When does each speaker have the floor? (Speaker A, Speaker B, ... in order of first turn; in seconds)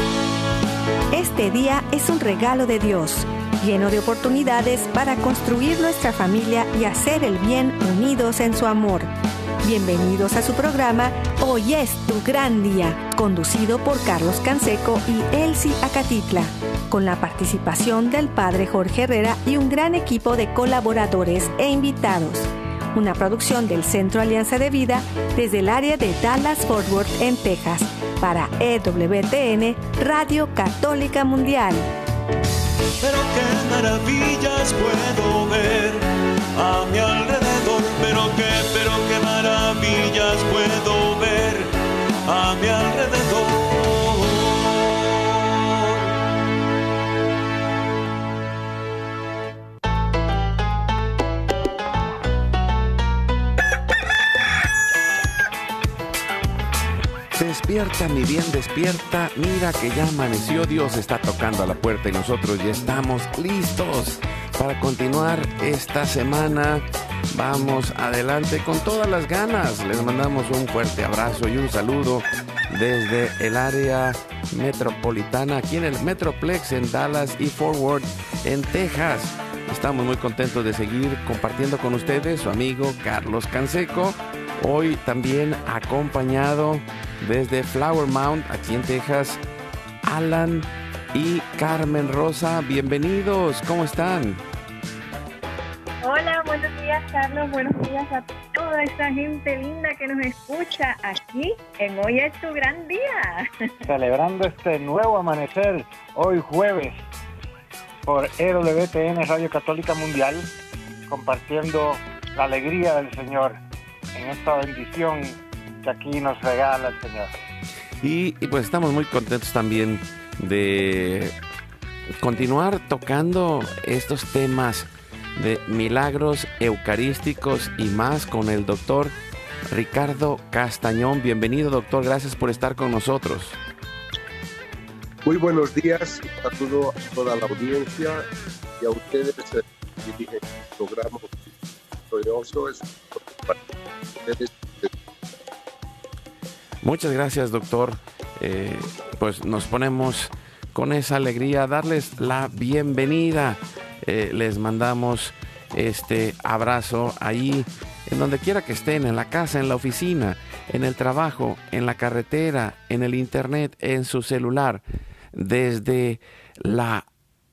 Speaker A: 1.1-9.1, 9.6-31.9
Speaker B: 33.0-41.7, 42.3-45.5
Speaker C: 57.4-89.4, 90.1-94.4, 118.0-121.3, 122.2-129.1, 129.7-133.6, 146.8-167.1
Speaker D: 96.0-103.7
Speaker E: 103.8-107.1, 108.1-110.5, 111.1-113.6, 114.2-117.4
Speaker F: 135.3-138.2, 138.8-141.3, 142.1-143.6, 144.2-144.9